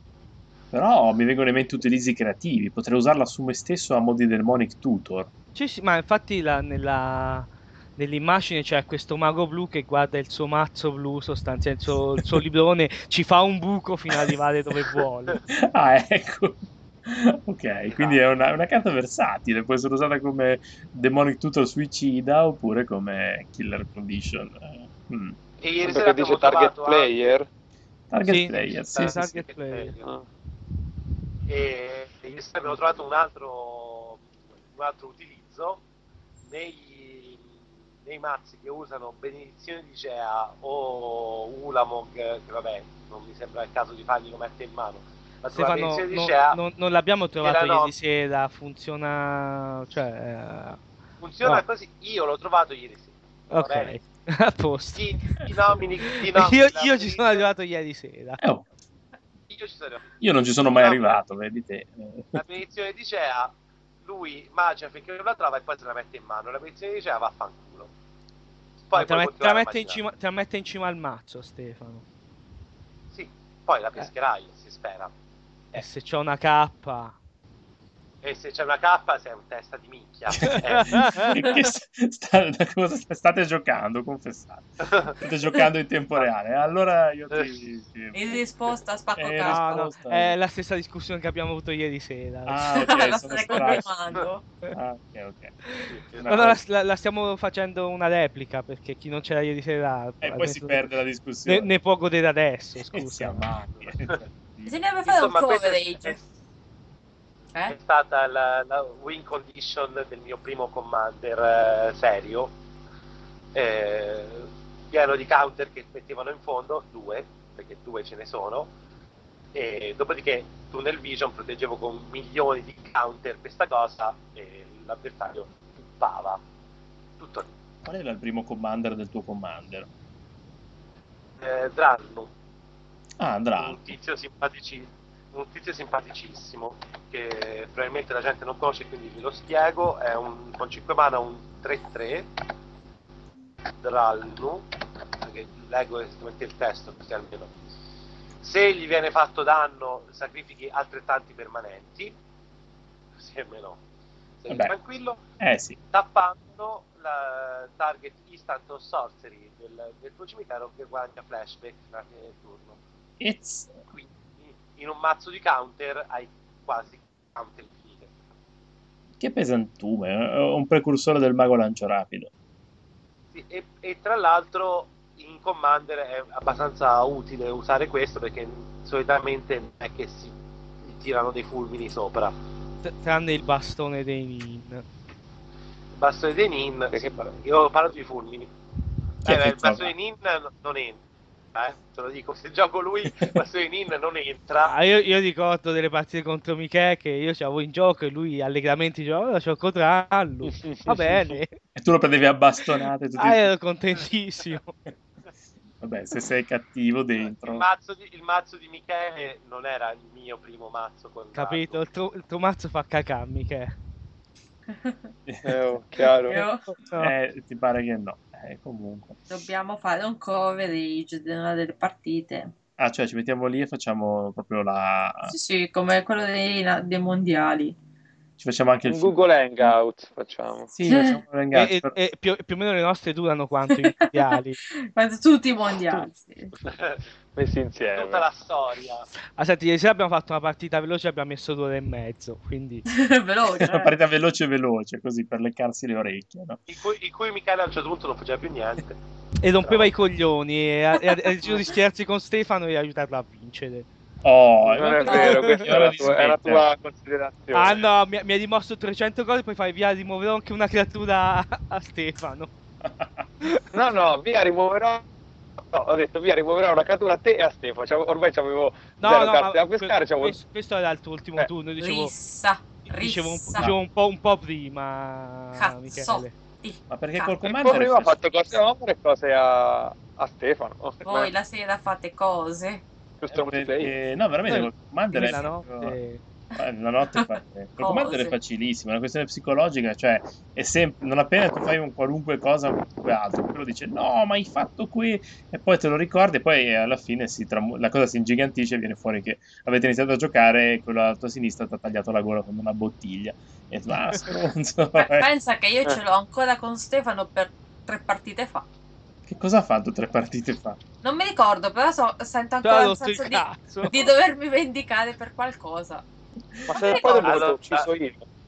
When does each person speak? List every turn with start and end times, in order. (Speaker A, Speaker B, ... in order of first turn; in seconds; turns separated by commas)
Speaker A: 0.7-5.3, Speaker B: 5.5-15.4, Speaker A: 15.5-25.4, Speaker C: 17.9-18.2, Speaker C: 25.6-27.3, Speaker D: 25.8-27.5, Speaker A: 28.1-29.3, Speaker B: 28.2-29.9, Speaker C: 28.9-30.1, Speaker C: 31.5-35.8, Speaker C: 36.5-37.5, Speaker C: 38.0-46.6, Speaker B: 45.5-50.8, Speaker C: 47.4-47.9, Speaker C: 51.2-54.0, Speaker B: 53.5-55.0, Speaker C: 55.0-57.5, Speaker B: 56.3-58.4, Speaker A: 58.4-58.7, Speaker C: 59.5-61.2, Speaker A: 60.2-62.4, Speaker C: 62.4-63.5, Speaker C: 64.0-67.9, Speaker C: 68.9-70.0, Speaker B: 68.9-72.0, Speaker C: 73.1-75.1, Speaker B: 75.8-77.2, Speaker C: 78.2-81.5, Speaker A: 80.4-88.5, Speaker B: 80.5-81.3, Speaker C: 84.8-85.2, Speaker C: 87.3-87.6, Speaker E: 88.1-89.9, Speaker A: 89.2-90.4, Speaker B: 89.4-92.7, Speaker A: 92.5-94.2, Speaker E: 92.7-94.5, Speaker A: 94.7-95.6, Speaker B: 95.8-100.9, Speaker C: 95.9-96.4, Speaker A: 96.1-96.6, Speaker A: 100.2-101.7, Speaker B: 101.5-103.5, Speaker A: 102.9-104.8, Speaker C: 103.8-104.2, Speaker E: 104.7-106.2, Speaker C: 105.0-106.2, Speaker C: 107.7-112.5, Speaker C: 113.5-118.7, Speaker C: 119.5-126.4, Speaker C: 127.2-127.5, Speaker A: 127.8-129.9, Speaker C: 131.4-132.3, Speaker A: 133.2-133.8, Speaker C: 133.6-142.3, Speaker C: 143.8-144.7, Speaker C: 145.2-147.5, Speaker C: 148.4-152.2, Speaker C: 153.2-153.8, Speaker C: 154.4-155.2, Speaker A: 154.5-154.7, Speaker A: 155.4-155.8, Speaker C: 155.9-162.8, Speaker A: 163.2-163.8, Speaker C: 163.9-168.1, Speaker A: 169.2-172.3, Speaker C: 173.3-182.3, Speaker B: 182.8-184.8, Speaker C: 186.0-188.5, Speaker D: 186.9-187.4, Speaker C: 189.2-191.0, Speaker A: 189.2-189.9, Speaker C: 191.5-194.8, Speaker B: 194.7-201.6, Speaker D: 200.5-201.4, Speaker A: 201.8-203.5, Speaker B: 203.2-204.8, Speaker A: 205.8-207.7, Speaker C: 207.2-211.8, Speaker B: 211.3-213.8, Speaker E: 214.7-215.0, Speaker A: 215.3-215.8, Speaker D: 215.4-216.4, Speaker E: 216.3-216.6, Speaker B: 216.3-217.1, Speaker A: 217.0-219.2, Speaker E: 219.3-222.5, Speaker A: 222.8-225.3, Speaker E: 225.3-227.8, Speaker A: 228.4-229.7, Speaker D: 228.9-230.7, Speaker A: 230.7-232.0, Speaker E: 230.9-231.2, Speaker B: 231.5-234.6, Speaker E: 234.8-236.5, Speaker C: 236.7-237.0, Speaker D: 237.3-238.3, Speaker C: 237.9-239.1, Speaker B: 239.4-242.8, Speaker E: 242.9-243.9, Speaker A: 243.5-246.6, Speaker C: 246.7-249.0, Speaker B: 249.4-253.9, Speaker C: 249.6-249.9, Speaker A: 254.2-256.7, Speaker D: 254.6-257.8, Speaker B: 255.1-255.7, Speaker B: 257.5-262.5, Speaker A: 262.8-263.2, Speaker D: 263.7-265.0, Speaker D: 265.6-270.4, Speaker B: 269.0-272.1, Speaker E: 271.8-273.7, Speaker B: 272.9-276.3, Speaker E: 275.6-277.7, Speaker A: 276.9-278.2, Speaker D: 277.4-281.3, Speaker E: 281.0-282.8, Speaker D: 283.2-283.9, Speaker A: 283.3-286.0, Speaker B: 284.5-286.2, Speaker A: 286.6-305.3, Speaker E: 287.8-288.4, Speaker E: 305.0-308.7, Speaker A: 309.3-310.8, Speaker E: 311.0-316.0, Speaker B: 312.6-314.1, Speaker D: 316.7-318.3, Speaker E: 316.7-317.4, Speaker C: 317.0-317.9